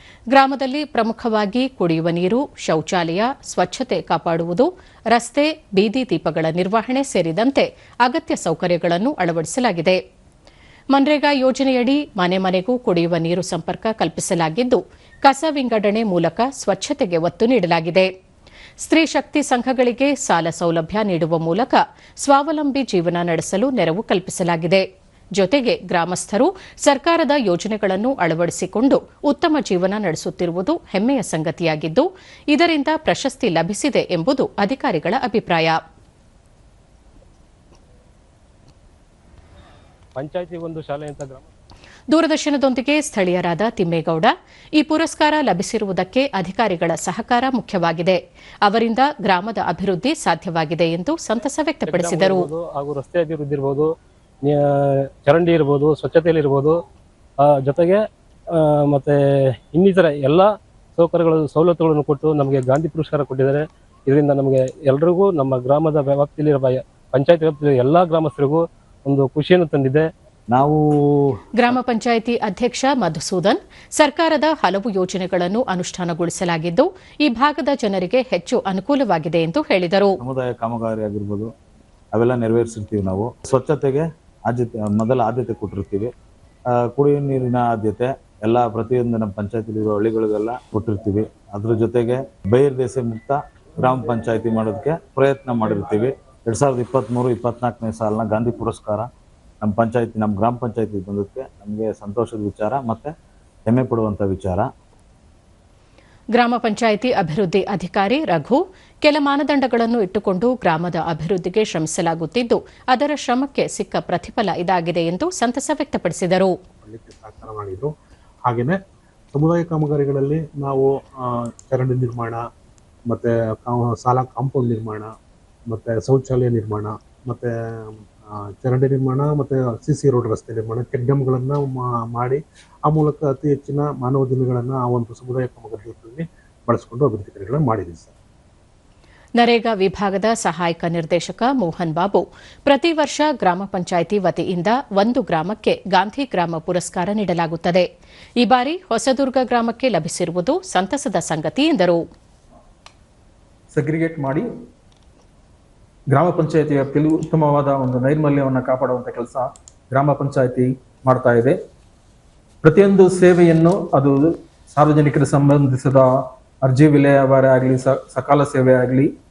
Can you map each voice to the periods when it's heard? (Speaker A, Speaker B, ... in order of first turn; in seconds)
Speaker A: 0.3-10.0, 10.9-18.1, 18.8-24.8, 25.4-35.8, 42.1-52.5, 71.6-80.2, 106.3-116.5, 139.4-147.9, 148.4-152.0
Speaker B: 40.2-41.5, 51.9-53.9, 55.2-56.8, 57.4-58.0, 58.5-59.2, 59.7-70.1
Speaker C: 70.5-71.8, 80.2-81.5, 82.2-86.1, 86.8-99.1, 99.6-103.1, 103.7-104.7
Speaker D: 116.8-117.9, 118.5-118.8, 119.3-122.4, 123.1-125.1, 125.7-138.1
Speaker E: 153.7-154.4, 156.1-161.6, 162.6-169.1